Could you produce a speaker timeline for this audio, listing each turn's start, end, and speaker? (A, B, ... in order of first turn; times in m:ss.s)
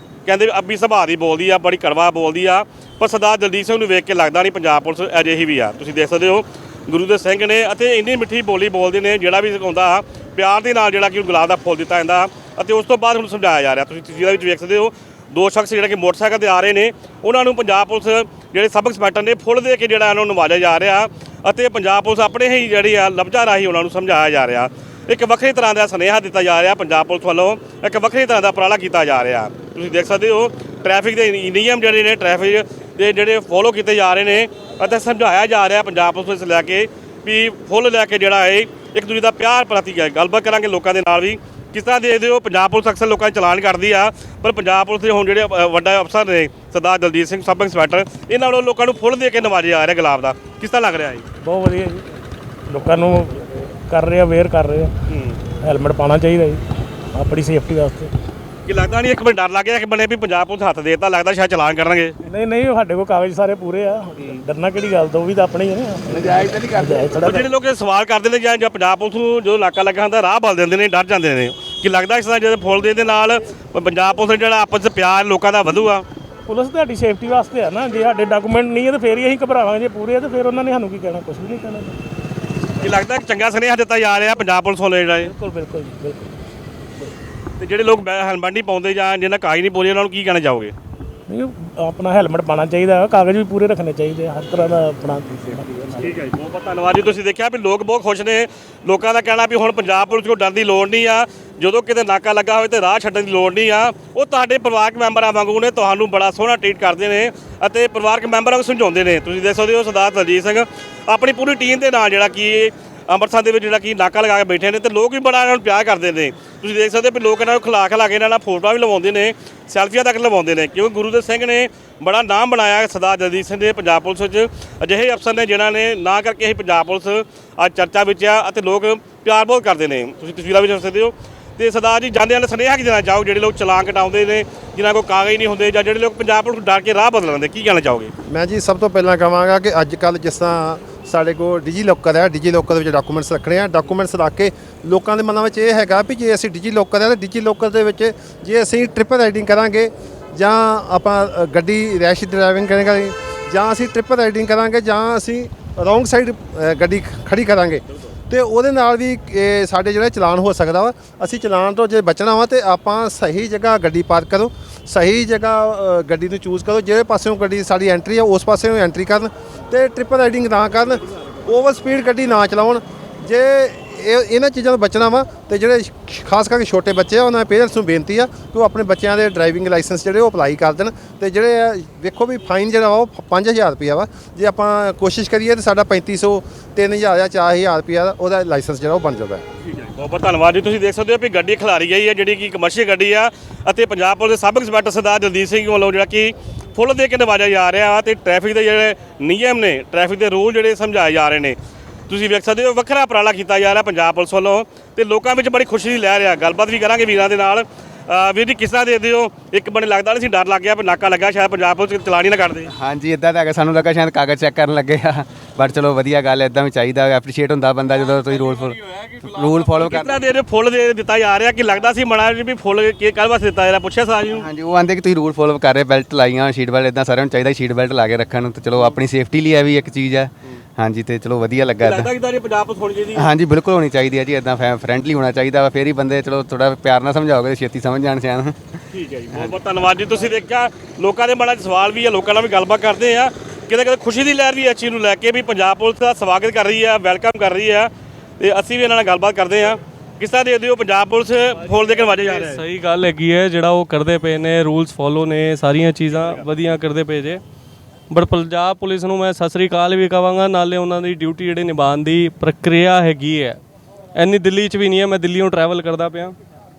0:00.3-0:51.2 A
0:51.4-0:52.0 B
0:52.7-0:54.9 B
0:55.1-0:55.4 A
0:55.6-0:56.6 B
0:57.1-0:58.1 B
0:58.7-1:02.2 A
1:02.2-1:07.5 B
1:06.2-1:07.0 C
1:07.2-1:16.1 A
1:16.5-1:22.0 B
1:22.8-1:25.3 A
1:25.2-1:26.3 B
1:27.6-1:30.7 A
1:31.3-1:36.1 B
1:36.0-2:18.1 A
2:18.3-3:09.4 D
3:09.7-3:21.6 A
3:22.1-3:32.7 A
3:32.7-3:40.2 C
3:39.7-3:44.5 A
3:44.3-3:52.1 C
3:51.8-3:53.3 A
3:53.2-3:58.8 C
3:58.9-4:12.6 A
4:12.2-4:17.4 E
4:18.1-4:23.6 E
4:24.2-4:26.4 E